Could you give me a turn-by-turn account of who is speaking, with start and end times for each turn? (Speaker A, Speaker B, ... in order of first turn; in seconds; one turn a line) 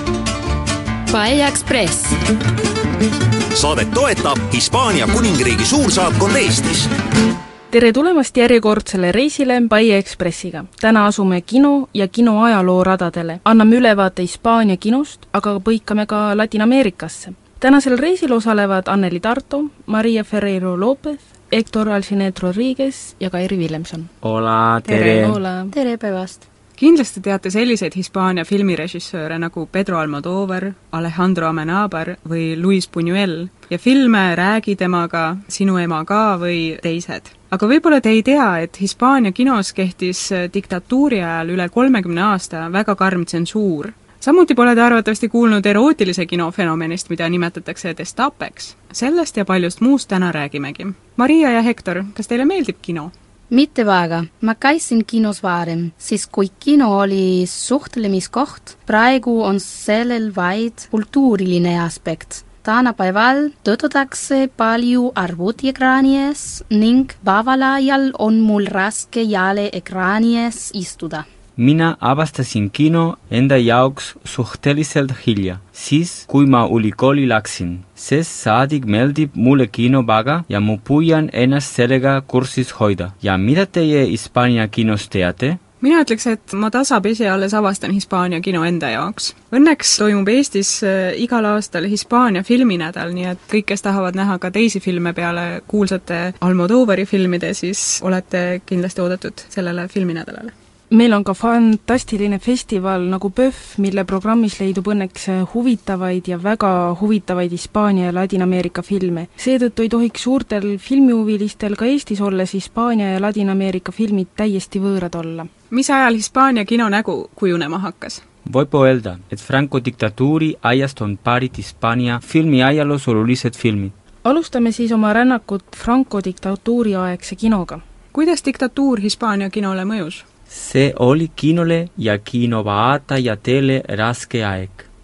Speaker A: 1.1-2.1
Speaker B: 3.5-6.9
Speaker C: 7.7-24.1
Speaker D: 24.2-25.4
Speaker C: 24.9-25.7
Speaker A: 25.7-26.4
Speaker E: 26.8-53.1
Speaker A: 53.5-71.2
Speaker D: 71.6-85.6
Speaker E: 85.8-100.5
Speaker C: 100.9-115.5
Speaker E: 115.7-118.2
Speaker D: 118.4-123.9
Speaker C: 124.2-127.8
Speaker E: 128.1-130.2
Speaker D: 130.5-134.8